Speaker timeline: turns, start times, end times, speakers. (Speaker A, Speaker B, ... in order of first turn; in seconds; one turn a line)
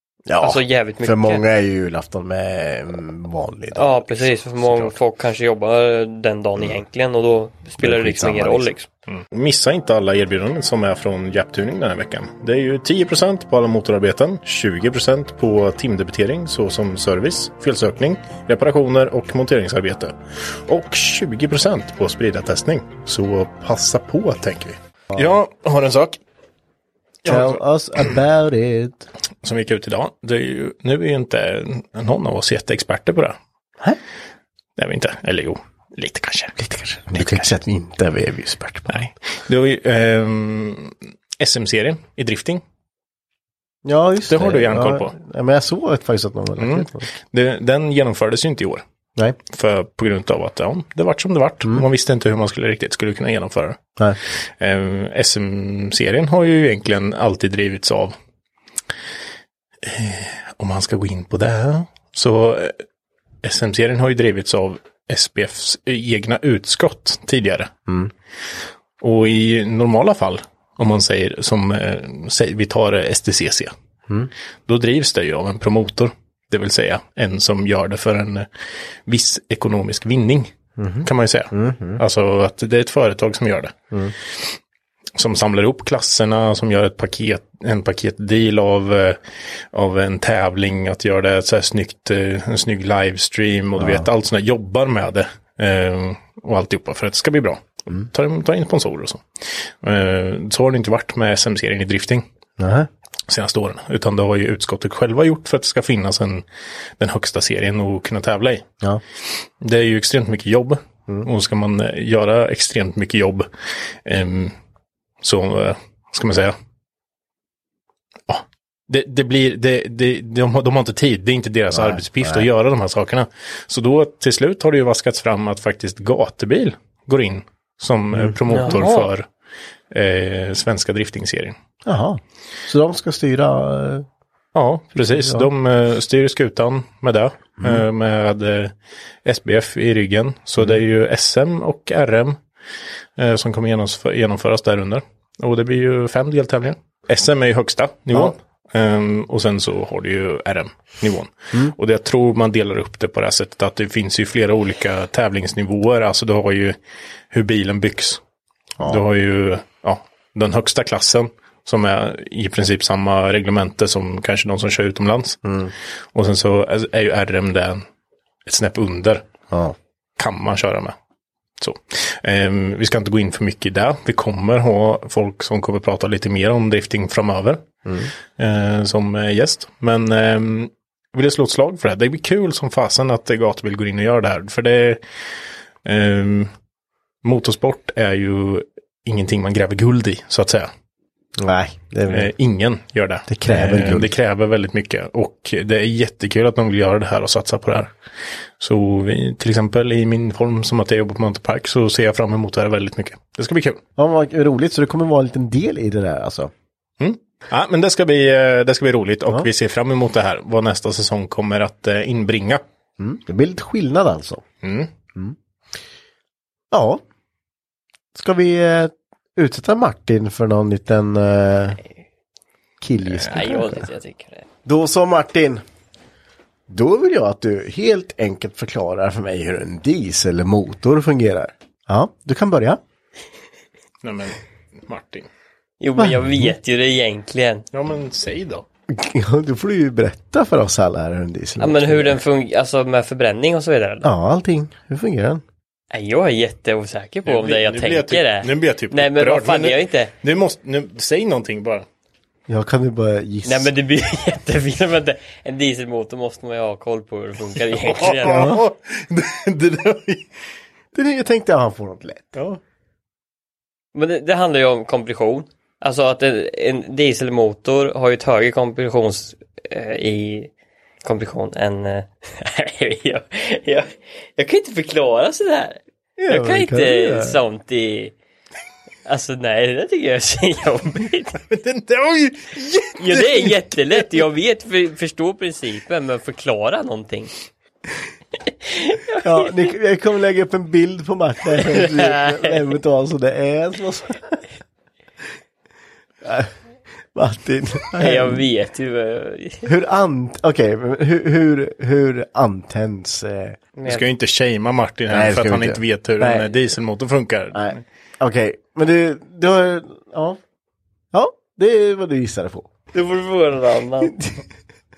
Speaker A: 0.3-4.9
Speaker B: 0.4-1.4
Speaker B: 3.7-8.9
Speaker A: 7.8-8.7
Speaker C: 9.1-26.2
Speaker C: 27.2-28.1
Speaker A: 27.2-29.1
Speaker C: 29.4-33.4
Speaker C: 34.8-37.5
Speaker A: 37.1-39.1
Speaker C: 38.9-42.6
Speaker A: 43.8-47.1
Speaker C: 44.3-45.1
Speaker C: 46.6-48.8
Speaker C: 49.5-53.8
Speaker C: 54.6-58.1
Speaker C: 59.8-62.8
Speaker C: 63.4-67.7
Speaker C: 69.0-73.7
Speaker C: 74.7-78.5
Speaker C: 79.1-80.5
Speaker A: 80.8-82.0
Speaker C: 81.0-83.7
Speaker C: 85.2-89.2
Speaker C: 89.7-99.2
Speaker A: 93.8-94.1
Speaker C: 99.8-102.2
Speaker A: 102.6-102.9
Speaker C: 103.3-106.4
Speaker C: 107.0-108.6
Speaker C: 109.6-113.5
Speaker C: 114.0-114.5
Speaker C: 115.2-116.5
Speaker C: 118.3-129.2
Speaker A: 121.7-122.5
Speaker A: 128.1-128.8
Speaker B: 128.5-129.1
Speaker C: 129.9-131.6
Speaker A: 131.8-134.1
Speaker C: 134.5-138.7
Speaker A: 135.1-135.5
Speaker C: 139.2-142.4
Speaker C: 143.2-156.8
Speaker C: 157.3-158.2
Speaker A: 158.8-159.0
Speaker C: 158.8-165.4
Speaker A: 165.4-165.7
Speaker C: 166.1-167.8
Speaker C: 168.4-169.2
Speaker A: 169.5-169.8
Speaker C: 170.2-170.9
Speaker C: 171.6-177.6
Speaker A: 177.8-178.1
Speaker C: 178.4-185.0
Speaker C: 185.8-186.5
Speaker C: 187.2-190.7
Speaker A: 191.4-192.3
Speaker C: 192.1-197.9
Speaker A: 193.3-194.1
Speaker C: 198.6-203.8
Speaker A: 204.0-206.5
Speaker C: 207.0-212.6
Speaker A: 213.0-214.4
Speaker C: 214.6-214.9
Speaker A: 216.7-217.0
Speaker A: 218.1-221.8
Speaker A: 222.8-223.8
Speaker B: 223.3-224.4
Speaker A: 224.6-225.6
Speaker A: 226.7-232.8
Speaker C: 234.0-235.3
Speaker B: 235.8-237.7
Speaker A: 236.0-236.5
Speaker C: 237.7-238.6
Speaker A: 238.9-242.2
Speaker B: 241.6-244.1
Speaker A: 244.0-245.4
Speaker B: 245.9-250.1
Speaker C: 247.2-251.8
Speaker A: 252.5-253.7
Speaker B: 253.4-258.5
Speaker C: 257.8-260.3
Speaker A: 258.2-258.6
Speaker A: 260.9-262.4
Speaker C: 262.3-262.6
Speaker B: 263.9-270.5
Speaker B: 271.0-278.1
Speaker A: 276.2-277.4
Speaker B: 279.1-281.4
Speaker C: 281.4-283.6
Speaker B: 282.9-287.3
Speaker B: 288.5-289.5
Speaker A: 289.2-294.4
Speaker B: 291.5-292.5
Speaker A: 296.2-296.5
Speaker A: 297.1-298.4
Speaker B: 297.9-299.7
Speaker A: 299.6-303.6
Speaker B: 303.8-304.0
Speaker C: 303.9-307.8
Speaker A: 305.1-306.5
Speaker A: 307.5-310.4
Speaker A: 311.1-312.7
Speaker B: 312.9-314.1